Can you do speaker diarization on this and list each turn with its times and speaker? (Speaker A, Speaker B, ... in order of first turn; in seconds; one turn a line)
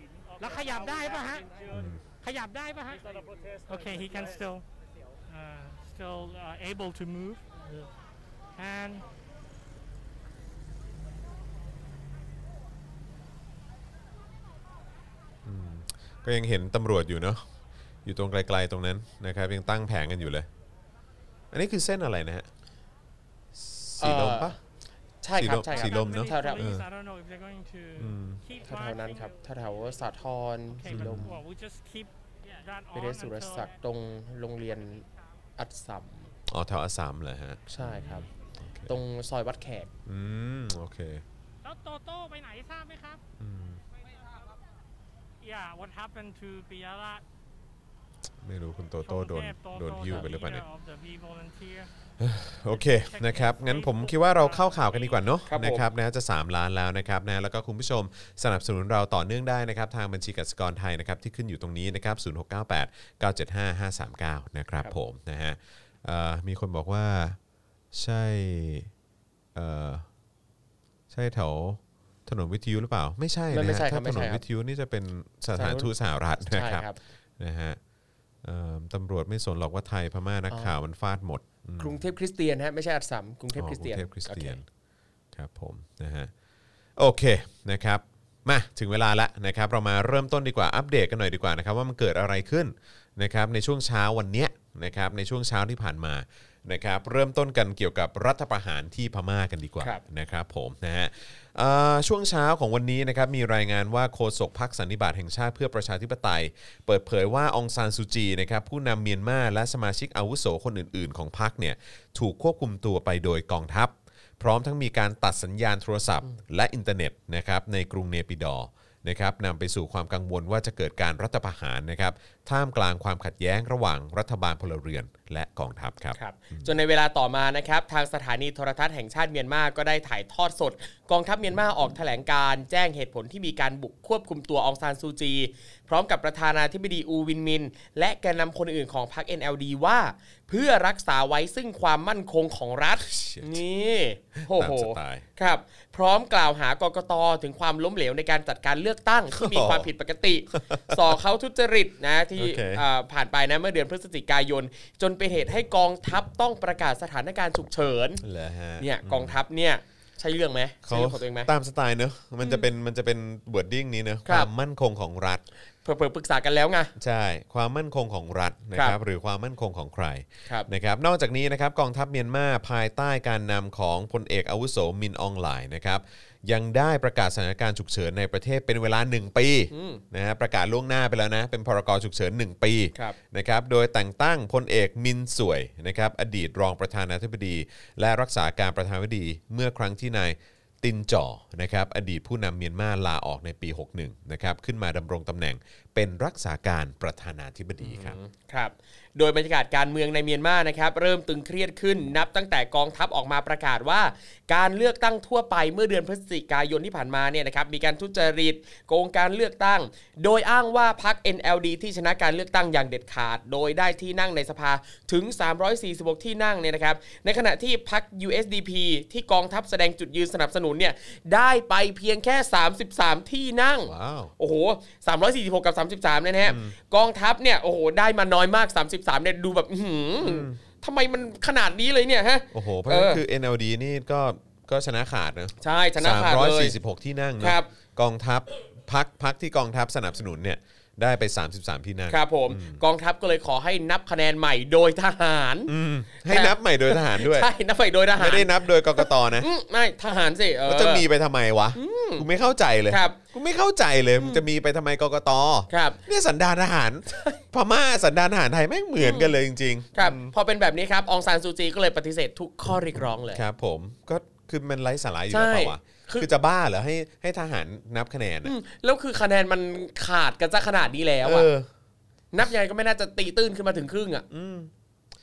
Speaker A: 0.4-1.6
Speaker B: 1.7-2.0
Speaker A: 2.2-4.7
Speaker A: 5.3-7.9
Speaker A: 8.6-9.1
Speaker B: 15.4-17.5
Speaker B: 18.1-20.5
Speaker B: 21.5-22.5
Speaker B: 23.6-24.6
Speaker C: 24.0-24.6
Speaker C: 25.2-26.7
Speaker B: 25.4-26.9
Speaker A: 25.7-29.3
Speaker B: 28.0-28.4
Speaker C: 28.6-31.4
Speaker A: 30.7-33.7
Speaker B: 30.9-31.4
Speaker C: 32.9-35.1
Speaker C: 35.6-36.3
Speaker B: 36.5-39.0
Speaker C: 37.7-38.3
Speaker C: 38.9-39.9
Speaker B: 40.1-41.2
Speaker A: 41.6-43.2
Speaker B: 43.4-43.8
Speaker A: 45.4-47.2
Speaker B: 48.4-50.6
Speaker A: 49.0-51.9
Speaker B: 52.2-67.4
Speaker A: 52.8-55.2
Speaker C: 55.5-55.9
Speaker B: 67.9-68.9
Speaker B: 69.5-70.1
Speaker B: 71.1-76.9
Speaker C: 73.5-74.4
Speaker C: 75.5-75.9
Speaker C: 76.4-77.0
Speaker B: 77.4-77.8
Speaker B: 78.4-82.0
Speaker C: 81.8-84.6
Speaker B: 83.5-84.7
Speaker B: 85.3-86.3
Speaker B: 87.0-126.7
Speaker C: 126.2-158.2
Speaker B: 143.0-143.6
Speaker B: 144.4-145.2
Speaker B: 149.3-149.9
Speaker B: 150.5-151.2
Speaker B: 152.4-152.8
Speaker B: 158.2-159.4
Speaker C: 158.8-161.5
Speaker B: 160.8-165.4
Speaker C: 165.8-166.9
Speaker B: 167.0-198.2
Speaker C: 179.7-180.0
Speaker C: 197.8-233.2
Speaker B: 223.9-224.3
Speaker B: 226.4-226.8
Speaker B: 230.2-230.6
Speaker B: 232.5-242.8
Speaker C: 235.6-236.8
Speaker C: 237.4-237.7
Speaker C: 242.1-251.1
Speaker B: 245.7-247.5
Speaker B: 248.2-249.5
Speaker B: 250.7-260.3
Speaker C: 251.8-252.3
Speaker C: 252.9-253.2
Speaker C: 254.2-254.4
Speaker C: 255.7-256.0
Speaker C: 259.0-259.4
Speaker C: 259.9-263.4
Speaker B: 263.3-268.5
Speaker C: 265.3-266.3
Speaker C: 268.4-271.5
Speaker B: 271.2-271.7
Speaker C: 272.3-274.2
Speaker B: 274.3-274.7